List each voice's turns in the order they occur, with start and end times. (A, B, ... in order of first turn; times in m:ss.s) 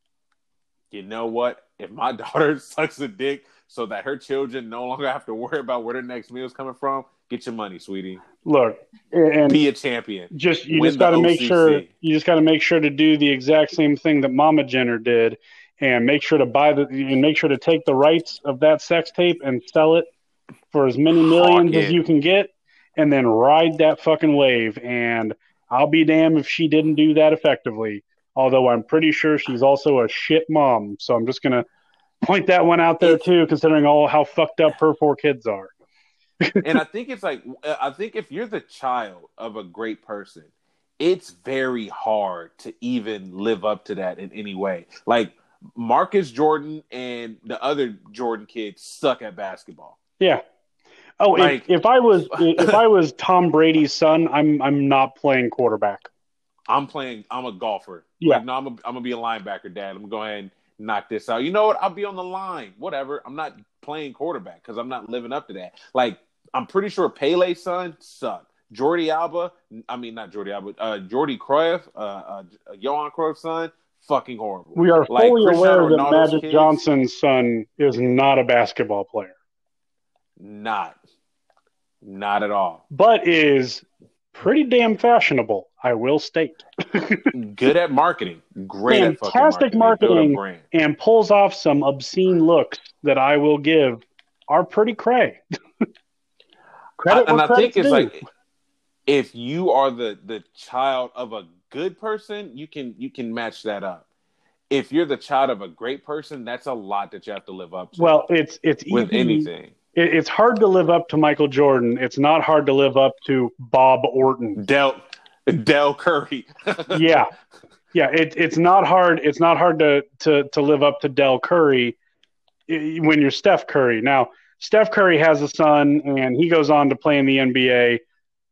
0:00.9-0:08.2 A
0:08.4-0:09.6 B
0:09.5-0:11.9 A
0:10.3-0:20.1 B
0:20.7-0:31.6 B
0:21.2-0:22.0 A
0:32.2-0:35.7 B
0:36.4-0:36.8 B
0:36.6-0:40.5 A
0:41.0-0:50.0 A
0:51.2-0:56.1 B
0:51.4-0:51.7 A
0:52.3-0:52.8 A
0:56.7-1:16.8 A
1:14.8-1:19.3 B
1:20.4-1:21.0 A
1:22.0-1:22.8 A
1:22.9-1:27.3 B
1:27.3-1:30.6 A
1:28.9-1:35.4 B
1:37.0-1:38.1 B
1:37.1-1:38.2 A
1:39.1-1:44.0 A
1:44.7-1:48.2 A
1:48.0-1:54.6 B
1:48.9-1:49.7 A
1:54.6-1:57.2 A
1:56.9-1:57.3 B
1:57.9-2:02.0 B
2:02.7-2:08.0 B